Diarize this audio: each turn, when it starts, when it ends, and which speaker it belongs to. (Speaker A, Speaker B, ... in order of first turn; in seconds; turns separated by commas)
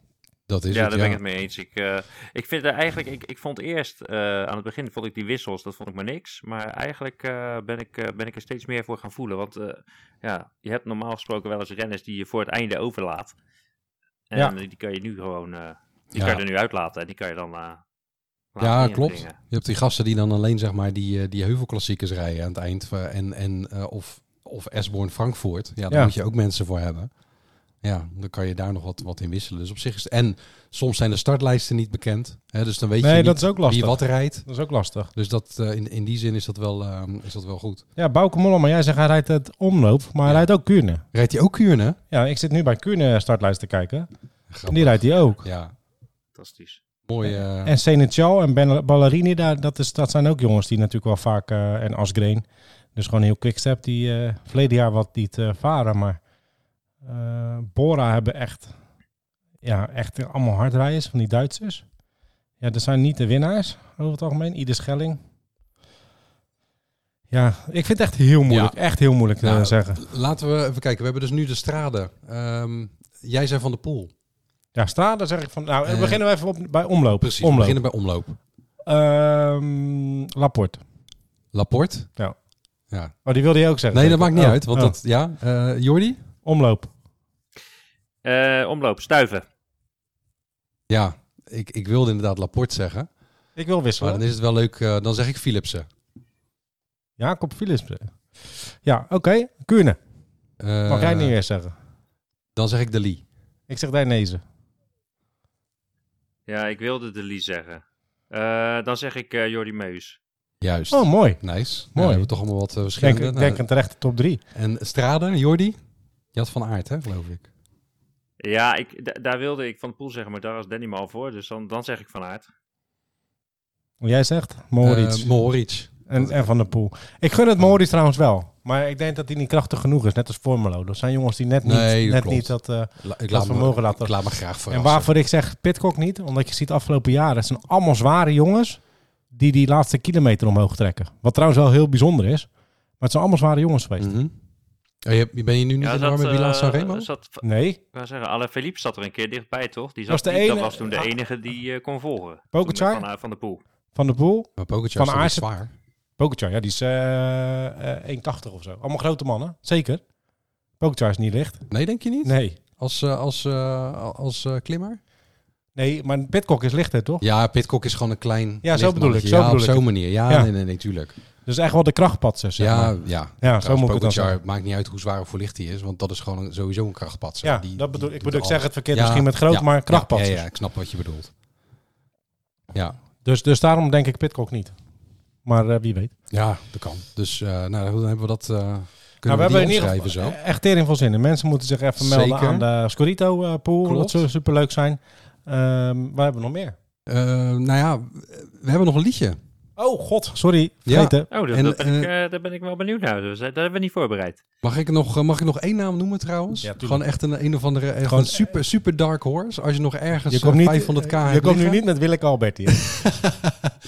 Speaker A: 0.5-1.2, Speaker B: 0.7-13.3, Speaker B: 14.3-17.8, Speaker A: 16.1-16.4, Speaker B: 18.5-19.4, Speaker A: 18.6-27.1, Speaker A: 27.8-34.5, Speaker C: 33.0-35.1, Speaker A: 35.1-37.8, Speaker C: 38.0-41.0, Speaker A: 41.1-42.0, Speaker C: 42.1-44.1, Speaker A: 44.5-45.7, Speaker C: 44.7-45.5, Speaker B: 46.4-46.8, Speaker A: 47.1-47.7, Speaker C: 47.6-56.2, Speaker C: 57.0-58.7, Speaker C: 59.6-61.9, Speaker C: 62.6-65.2, Speaker C: 67.3-70.0, Speaker A: 68.5-68.8, Speaker A: 69.4-74.1, Speaker C: 74.7-77.8, Speaker A: 75.8-76.2, Speaker A: 77.2-78.4, Speaker C: 78.9-80.8, Speaker A: 81.5-82.1, Speaker A: 82.9-83.1, Speaker C: 83.2-84.9, Speaker A: 83.9-86.2, Speaker C: 86.4-86.9, Speaker B: 88.2-89.4, Speaker A: 90.9-93.1, Speaker C: 93.5-94.2, Speaker A: 94.0-95.9, Speaker C: 97.2-100.0, Speaker A: 100.6-101.3, Speaker C: 100.9-101.7, Speaker A: 102.5-103.2, Speaker C: 103.7-104.4, Speaker B: 106.5-110.2, Speaker A: 110.6-113.6, Speaker C: 110.9-112.3, Speaker C: 112.9-114.4, Speaker A: 114.5-115.8, Speaker A: 116.3-117.5, Speaker B: 118.4-122.5, Speaker C: 124.0-125.3, Speaker A: 124.8-126.4, Speaker C: 126.1-138.8, Speaker A: 131.6-135.1, Speaker C: 139.3-142.5, Speaker C: 143.0-144.2, Speaker A: 144.0-144.3, Speaker A: 145.0-147.1, Speaker B: 145.8-153.6, Speaker C: 147.4-147.8, Speaker C: 150.1-151.1, Speaker C: 152.5-153.0, Speaker C: 153.9-155.4, Speaker A: 154.6-155.7, Speaker C: 156.2-160.0, Speaker C: 160.8-161.7, Speaker A: 161.7-165.0, Speaker C: 162.2-162.6, Speaker C: 165.8-167.2, Speaker A: 167.2-171.1, Speaker C: 168.6-170.5, Speaker C: 171.4-174.4, Speaker A: 172.6-181.3, Speaker C: 177.4-180.4, Speaker C: 183.2-184.7, Speaker C: 185.4-186.1, Speaker A: 186.3-190.4, Speaker C: 189.2-196.7, Speaker A: 192.0-192.7, Speaker A: 193.8-194.2, Speaker A: 197.1-199.4, Speaker C: 199.8-201.3, Speaker A: 200.8-202.1, Speaker B: 201.3-204.4, Speaker A: 204.6-211.8, Speaker C: 206.6-207.0, Speaker C: 208.0-208.5, Speaker C: 210.3-213.3, Speaker A: 212.7-213.1